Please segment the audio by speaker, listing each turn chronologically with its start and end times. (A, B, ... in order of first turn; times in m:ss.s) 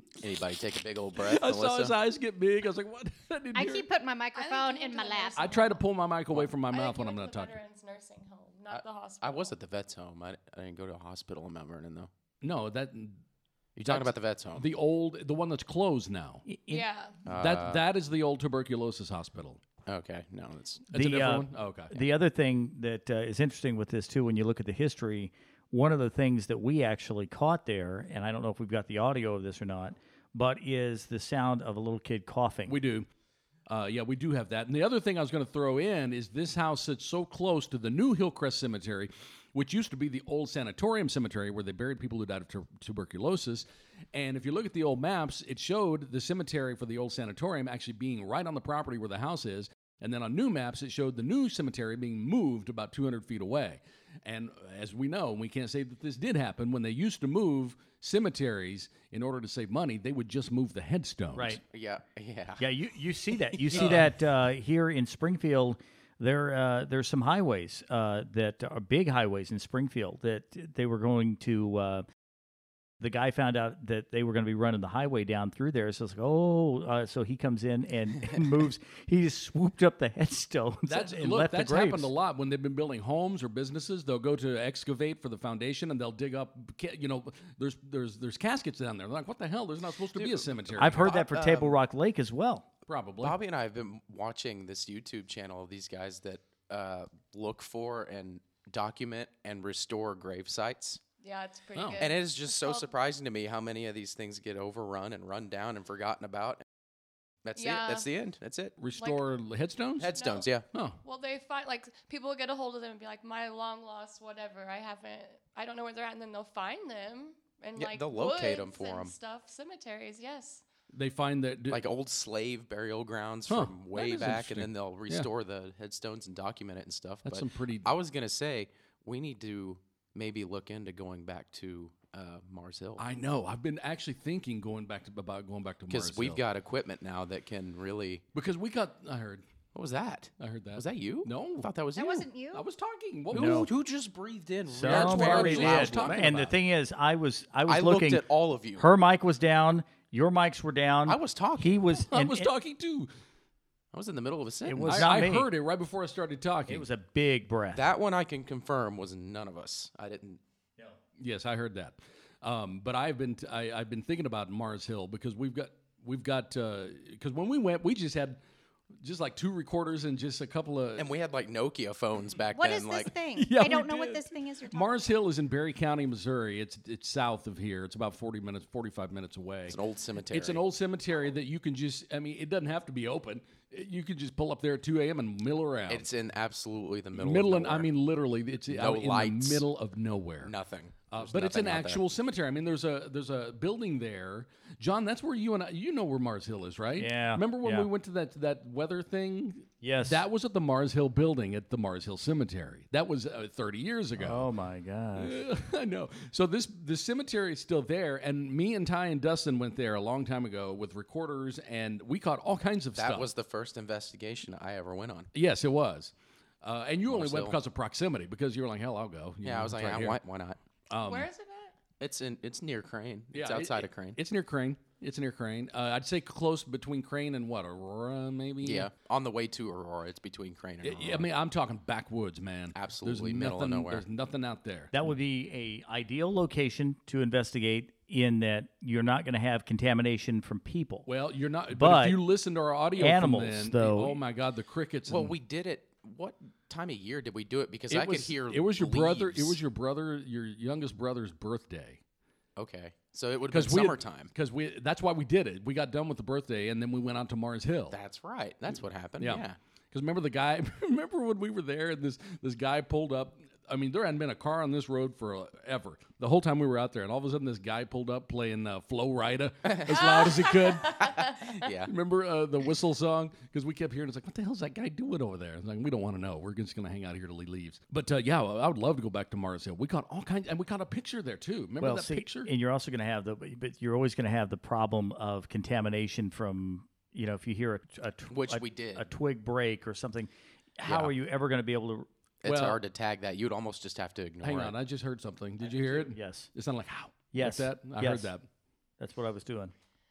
0:00.2-0:01.9 A
0:01.2-0:03.9 B
0:03.5-0:05.8 C
0:04.3-0:05.7 D
0:05.4-0:07.5 B
0:06.7-0:09.5 D
0:08.7-0:12.1 A
0:12.4-0:13.2 B
0:13.8-0:14.6 A
0:13.8-0:16.4 B
0:16.4-0:16.8 E
0:16.7-0:17.2 D
0:17.2-0:17.8 A
0:17.4-0:19.6 B
0:19.8-0:20.8 A
0:20.9-0:22.1 B
0:20.9-0:32.8 E
0:32.7-0:33.0 B
0:33.7-1:01.6 B
1:01.3-1:01.6 E
1:01.7-1:02.6 A
1:02.6-1:12.0 E
1:03.7-1:04.0 A
1:03.7-1:04.1 B
1:13.0-1:22.1 E
1:20.9-1:31.1 B
1:30.1-1:31.8 A
1:30.8-1:32.6 E
1:32.9-1:33.4 B
1:33.2-1:41.0 A
1:41.2-1:42.9 D
1:41.7-1:42.0 B
1:42.0-1:46.6 A
1:47.4-1:48.7 A
1:47.6-1:48.1 D
1:48.8-1:50.1 B
1:49.0-1:49.2 D
1:50.0-1:50.6 A
1:50.1-1:50.5 D
1:50.7-1:51.0 B
1:51.0-2:00.6 D
1:57.8-1:59.1 A
2:00.9-2:01.8 B
2:01.7-2:13.0 A
2:03.5-2:05.3 B
2:07.2-2:07.9 B
2:13.0-2:16.4 B
2:15.9-2:18.2 A
2:18.3-2:19.4 B
2:19.7-2:22.3 A
2:20.4-2:21.7 B
2:21.9-2:22.6 C
2:22.5-2:23.7 B
2:23.3-2:26.4 A
2:23.3-2:23.7 E
2:24.7-2:28.2 E
2:24.8-2:26.5 B
2:27.7-2:28.9 A
2:28.8-2:32.5 E
2:31.0-2:31.9 A
2:32.1-2:33.1 B
2:33.9-2:35.2 A
2:34.6-2:35.5 E
2:34.8-2:36.8 B
2:36.7-2:37.9 E
2:37.7-2:40.4 A
2:41.2-2:48.4 B
2:49.0-2:51.1 B
2:51.0-2:53.1 A
2:52.5-2:55.1 C
2:53.4-2:59.8 B
2:59.7-3:00.6 A
3:00.3-3:06.1 B
3:05.9-3:07.9 A
3:07.2-3:10.5 B
3:08.7-3:09.6 A
3:10.4-3:12.0 A
3:11.1-3:24.5 B
3:17.0-3:17.9 E
3:19.8-3:20.2 E
3:24.2-3:25.4 E
3:25.2-3:33.3 B
3:33.0-3:35.3 A
3:35.3-3:40.2 B
3:37.1-3:37.6 A
3:39.4-3:40.6 A
3:40.9-3:41.3 B
3:41.0-3:41.7 D
3:42.0-3:44.2 A
3:43.3-3:48.9 B
3:48.6-3:51.3 A
3:50.8-3:54.9 B
3:52.7-3:54.0 A
3:54.9-4:01.1 E
4:01.0-4:05.3 B
4:01.7-4:02.2 E
4:03.0-4:04.2 E
4:05.1-4:09.6 A
4:07.9-4:12.0 B
4:12.6-4:14.3 A
4:13.5-4:18.0 B
4:17.9-4:19.6 A
4:19.2-4:42.5 B
4:29.6-4:30.2 A
4:30.0-4:31.5 D
4:31.0-4:31.9 A
4:41.8-4:52.1 E
4:48.3-4:49.0 A
4:50.8-4:51.1 A
4:52.4-4:54.8 A
4:52.4-4:52.8 B
4:54.4-4:58.4 B
4:55.6-4:56.1 A
4:56.1-4:56.5 E
4:57.3-4:58.3 E
4:59.0-4:59.7 E